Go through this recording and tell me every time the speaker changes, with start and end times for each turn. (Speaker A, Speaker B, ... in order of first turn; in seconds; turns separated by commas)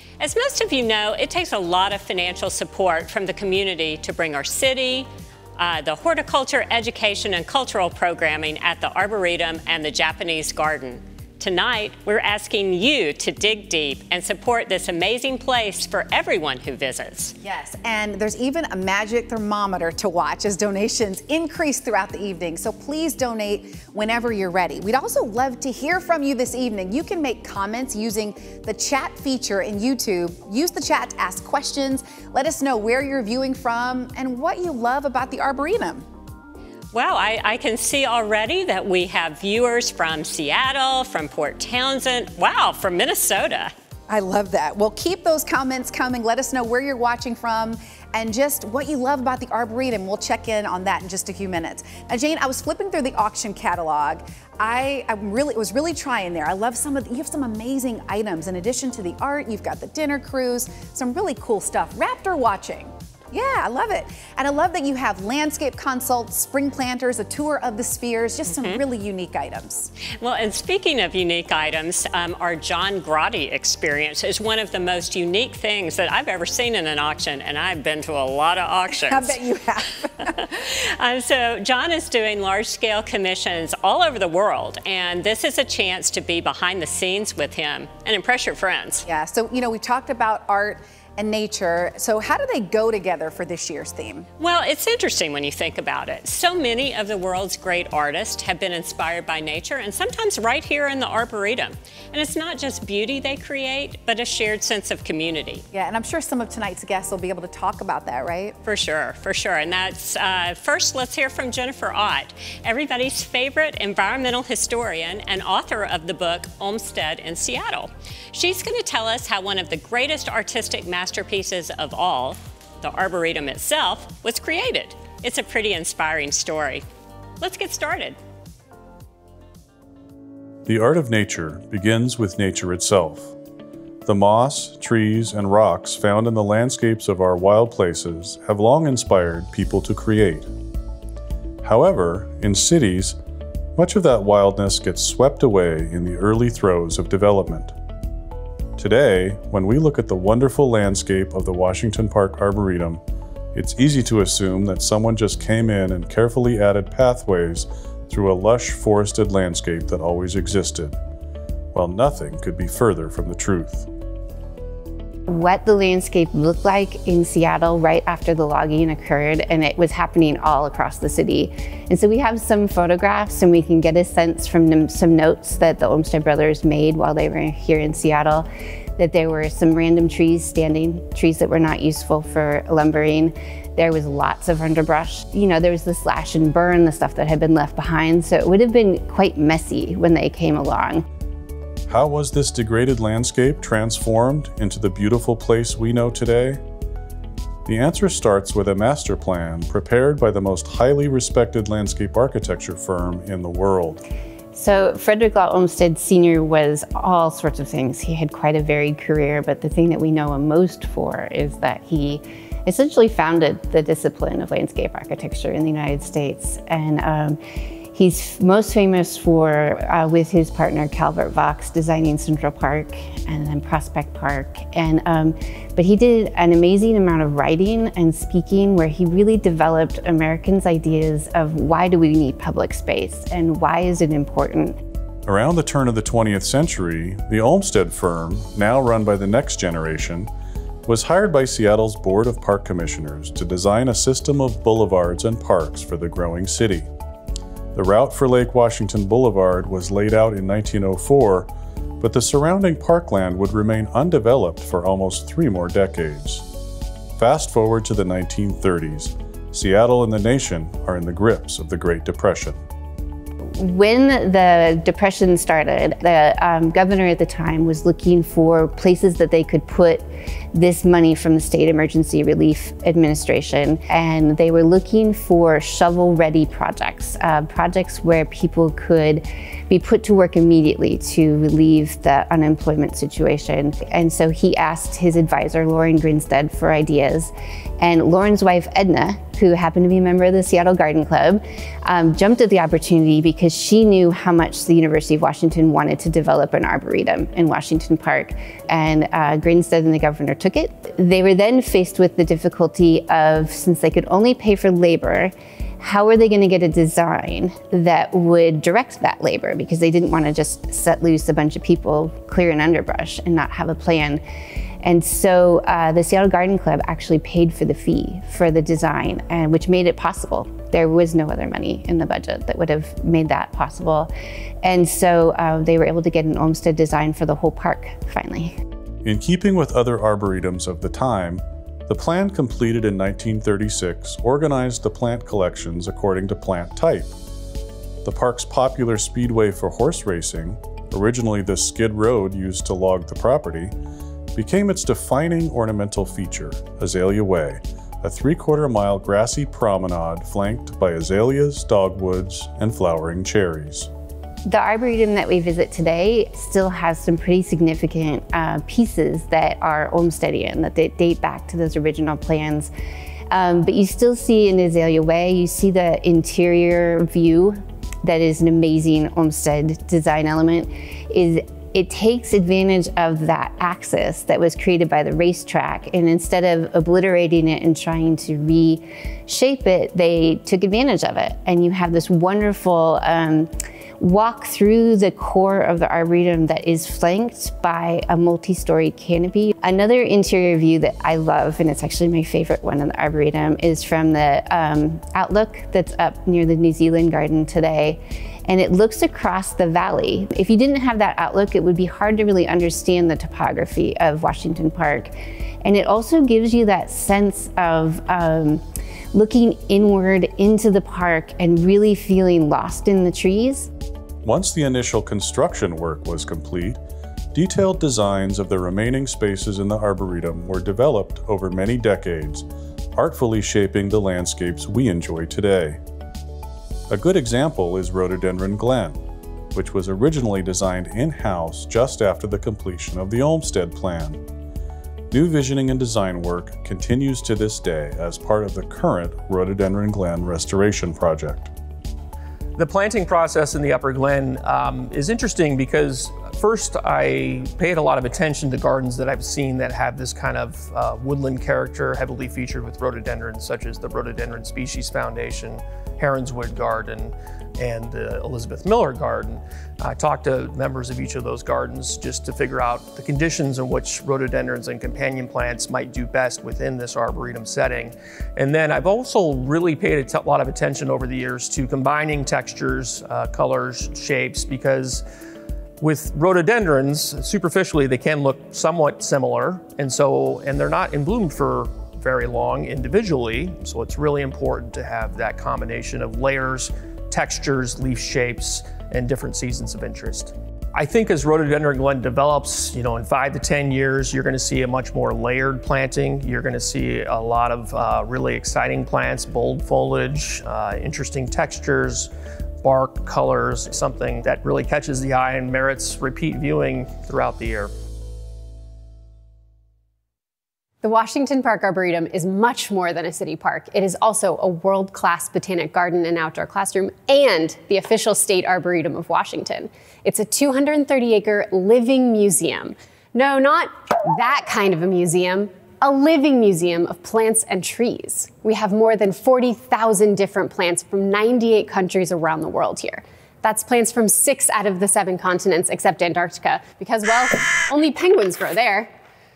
Speaker A: 0.2-17.3, Speaker B: 17.4-36.0, Speaker A: 36.9-43.7, Speaker B: 44.1-69.9, Speaker A: 68.5-68.8, Speaker A: 70.2-79.4, Speaker B: 79.0-80.3, Speaker A: 80.3-89.0, Speaker B: 89.0-94.3, Speaker A: 94.4-105.6, Speaker B: 105.7-108.5, Speaker A: 108.6-126.8, Speaker A: 127.4-128.2, Speaker C: 130.6-133.3, Speaker C: 134.0-140.5, Speaker C: 141.6-143.2, Speaker C: 143.8-147.7, Speaker C: 148.8-153.0, Speaker C: 153.5-161.0, Speaker C: 161.7-163.9, Speaker D: 165.3-191.1, Speaker C: 191.9-196.6, Speaker C: 197.7-204.0, Speaker D: 204.5-217.4, Speaker D: 217.9-234.8, Speaker C: 235.2-240.3, Speaker C: 240.8-246.9, Speaker C: 247.7-256.4, Speaker C: 257.1-262.6, Speaker D: 263.6-314.2, Speaker D: 314.8-324.1, Speaker D: 324.6-328.6, Speaker C: 329.0-337.1, Speaker C: 338.0-343.7, Speaker C: 344.3-353.9, Speaker D: 354.4-362.7, Speaker D: 363.3-413.7, Speaker C: 414.2-416.8, Speaker C: 417.3-425.8, Speaker C: 426.9-429.0, Speaker C: 429.5-434.2, Speaker C: 435.1-441.5, Speaker E: 442.6-475.0, Speaker E: 475.8-502.1, Speaker E: 502.6-507.7, Speaker F: 510.8-538.9